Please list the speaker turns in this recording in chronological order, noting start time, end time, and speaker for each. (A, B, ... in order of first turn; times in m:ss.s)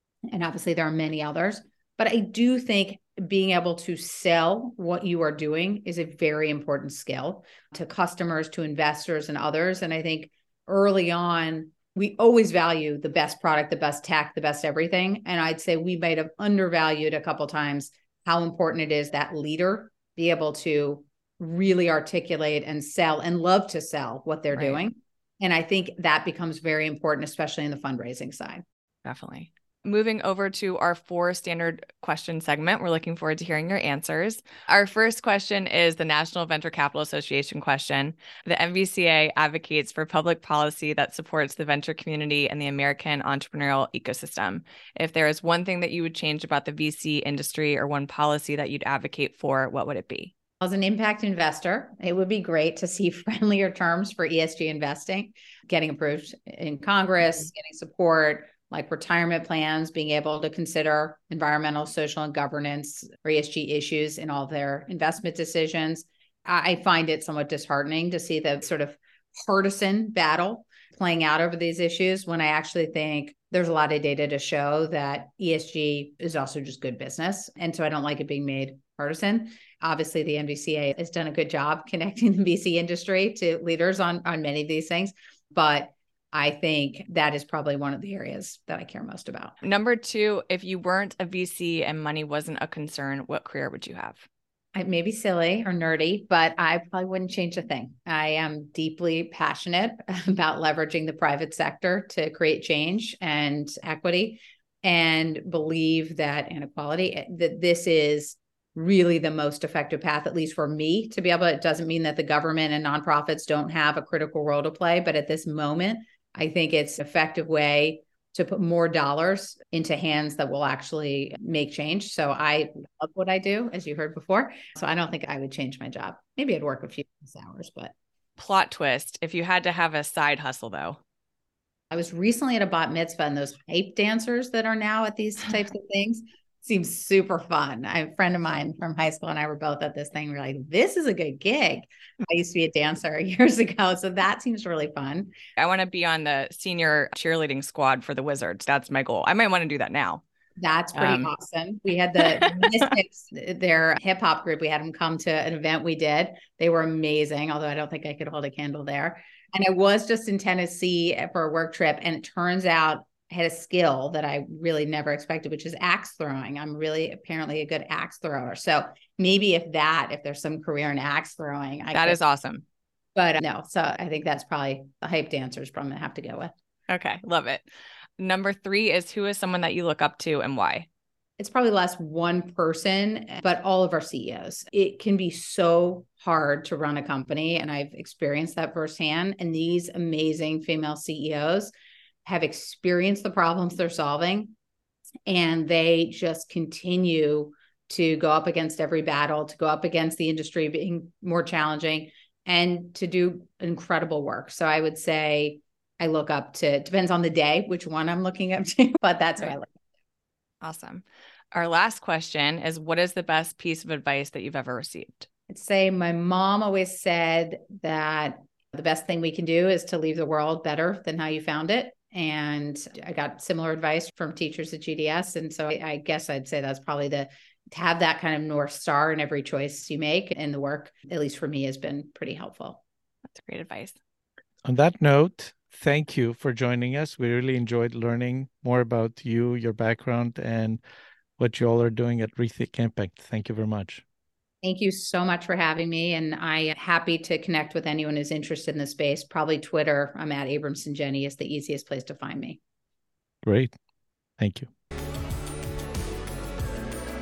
0:00.3-0:28.6 A
0:24.5-0:24.8 B
0:29.0-0:50.3 B
0:50.6-1:29.5 A
1:29.6-1:34.2 B
1:34.7-2:07.9 A
2:08.4-2:11.0 B
2:11.9-2:25.3 A
2:25.6-2:30.2 B
2:30.6-2:52.2 A
2:31.0-2:31.3 B
2:32.3-2:32.9 B
2:52.0-2:52.6 B
2:53.2-2:56.5 A
2:56.9-2:57.6 B
2:58.2-3:00.9 B
3:01.4-3:11.7 A
3:12.2-3:14.5 A
3:15.3-3:29.7 A
3:30.6-3:35.3 B
3:35.5-3:52.8 A
3:53.3-3:54.0 B
3:54.6-4:00.8 C
4:01.4-4:04.0 C
4:04.6-4:12.6 A
4:13.4-4:13.7 C
4:14.4-4:14.7 C